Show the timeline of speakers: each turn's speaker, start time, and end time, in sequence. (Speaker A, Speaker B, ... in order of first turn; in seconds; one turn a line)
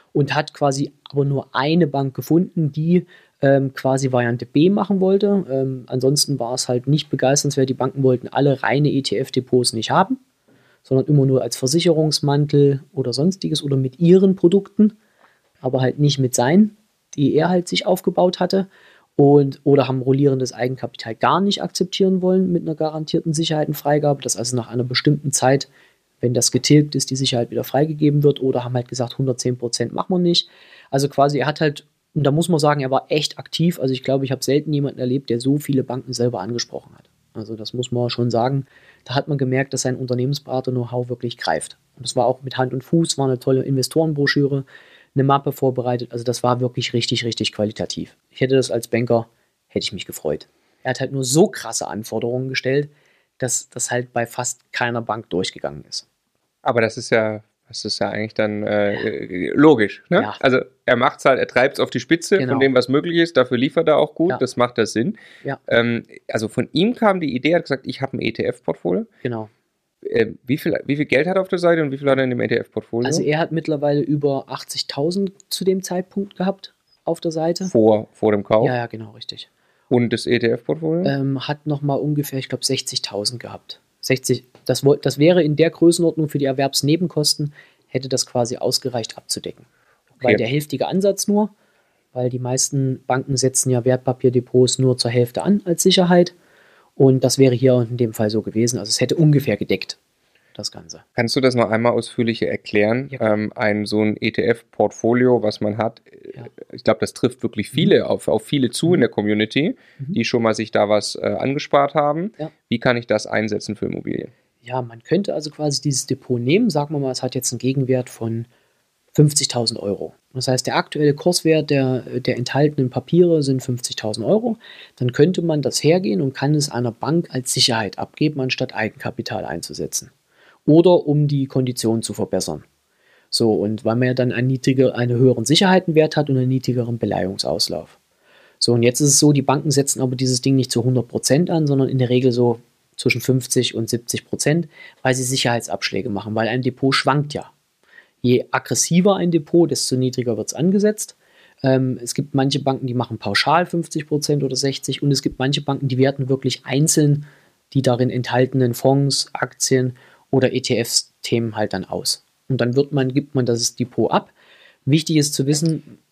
Speaker A: 0.1-10.2
Speaker A: 10.8-14.9
Speaker A: 15.6-25.7
Speaker A: 26.2-56.0
Speaker B: 56.6-69.1
Speaker A: 62.4-62.7
Speaker A: 69.2-69.5
Speaker B: 70.0-73.2
Speaker A: 73.0-77.7
Speaker B: 77.7-78.7
Speaker A: 78.6-79.5
Speaker B: 79.9-81.1
Speaker A: 81.0-89.7
Speaker A: 90.2-91.5
Speaker A: 92.1-96.3
Speaker A: 97.0-100.0
Speaker A: 100.5-101.0
Speaker B: 101.2-114.3
Speaker A: 114.6-118.5
Speaker A: 119.1-130.1
Speaker A: 130.7-132.6
Speaker A: 133.3-137.9
Speaker A: 138.6-147.5
Speaker A: 148.2-164.3
Speaker A: 164.8-165.9